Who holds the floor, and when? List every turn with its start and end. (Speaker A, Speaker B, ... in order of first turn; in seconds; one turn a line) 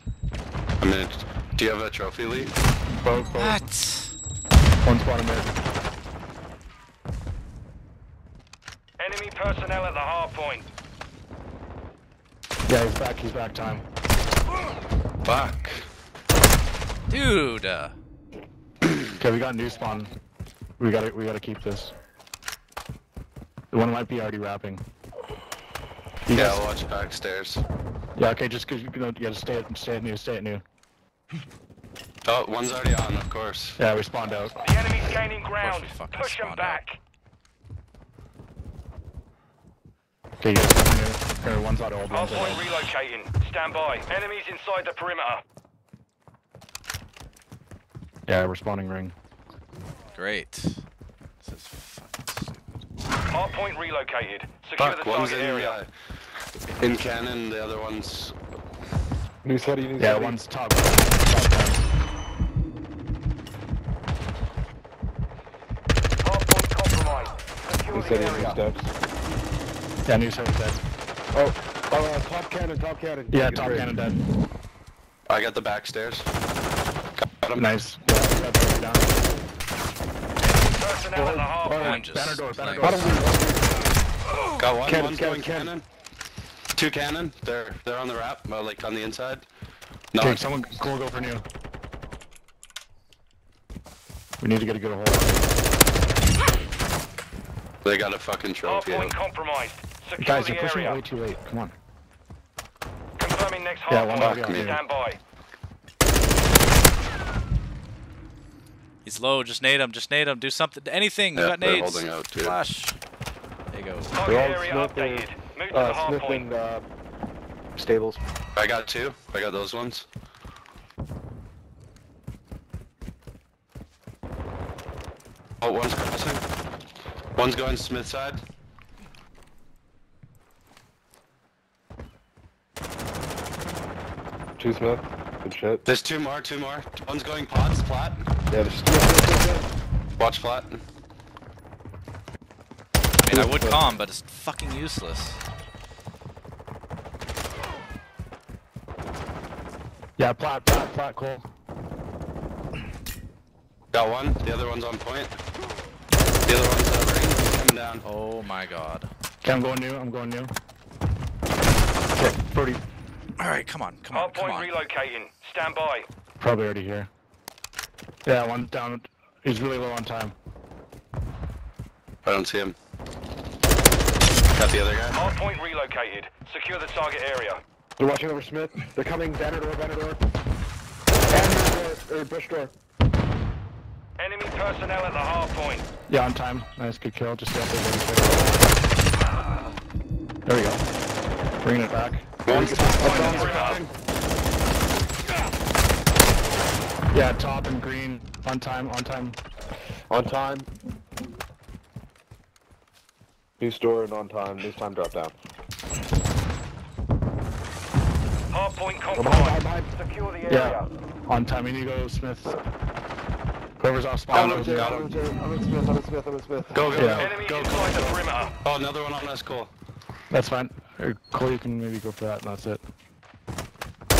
Speaker A: 0.8-2.5
Speaker B: 3.0-3.7
Speaker C: 3.2-4.1
Speaker B: 4.8-5.5
Speaker D: 9.0-10.6
Speaker B: 12.7-13.8
Speaker A: 15.2-15.9
Speaker C: 17.1-17.9
Speaker B: 19.2-20.1
Speaker B: 20.8-21.9
Speaker B: 23.7-24.8
Speaker B: 26.3-26.6
Speaker A: 26.3-27.6
Speaker B: 28.1-30.6
Speaker A: 32.2-33.8
Speaker B: 33.8-34.6
Speaker D: 34.6-37.0
Speaker C: 35.6-36.8
Speaker B: 40.4-42.6
Speaker D: 42.1-45.4
Speaker B: 48.3-49.1
Speaker C: 50.1-50.8
Speaker C: 51.4-52.6
Speaker D: 53.3-55.8
Speaker A: 54.8-55.9
Speaker A: 56.7-58.3
Speaker E: 59.4-60.4
Speaker B: 60.0-61.9
Speaker D: 66.2-68.5
Speaker E: 67.9-68.9
Speaker B: 70.0-70.8
Speaker E: 71.3-73.9
Speaker B: 73.3-74.2
Speaker A: 75.3-76.3
Speaker A: 77.2-77.7
Speaker B: 77.5-79.1
Speaker D: 80.6-82.0
Speaker B: 81.1-83.4
Speaker C: 81.8-83.2
Speaker E: 82.8-83.8
Speaker A: 84.6-85.8
Speaker E: 84.8-85.7
Speaker A: 86.8-89.5
Speaker A: 90.1-90.4
Speaker B: 90.2-91.4
Speaker B: 94.4-95.6
Speaker A: 97.8-99.1
Speaker D: 98.6-101.0
Speaker B: 100.2-101.7
Speaker D: 103.2-105.2
Speaker B: 103.9-104.8
Speaker A: 104.2-104.9
Speaker C: 109.0-113.0
Speaker A: 111.3-112.6
Speaker C: 113.7-114.2
Speaker D: 114.1-116.5
Speaker E: 114.2-116.8
Speaker E: 117.8-118.2
Speaker A: 118.5-120.1
Speaker A: 125.6-126.4
Speaker A: 127.3-128.4
Speaker E: 134.6-135.8
Speaker A: 135.8-138.3
Speaker E: 138.5-139.7
Speaker A: 140.2-140.8
Speaker C: 143.2-145.4
Speaker E: 143.3-143.9
Speaker B: 150.2-151.5
Speaker A: 153.9-155.3
Speaker A: 156.5-158.0
Speaker C: 158.0-159.1
Speaker B: 159.4-160.5
Speaker B: 162.1-162.8
Speaker C: 163.4-164.8
Speaker D: 164.1-166.1
Speaker B: 166.4-167.1
Speaker B: 168.2-170.3
Speaker A: 172.2-172.8
Speaker A: 174.5-175.3
Speaker D: 175.1-177.6
Speaker E: 178.0-180.2
Speaker E: 181.3-182.7
Speaker D: 184.2-185.8
Speaker B: 186.1-188.7
Speaker B: 190.4-190.8
Speaker B: 191.6-193.8
Speaker A: 192.4-193.9
Speaker E: 192.5-193.8
Speaker D: 193.1-193.8
Speaker B: 197.1-199.4
Speaker E: 200.1-200.7
Speaker E: 203.6-205.3
Speaker D: 208.5-210.9
Speaker E: 209.1-209.9
Speaker B: 210.5-212.6
Speaker B: 213.8-215.0
Speaker E: 214.3-217.1
Speaker A: 214.3-215.1
Speaker A: 216.7-219.7
Speaker B: 216.9-217.3
Speaker D: 217.2-218.5
Speaker B: 220.3-222.8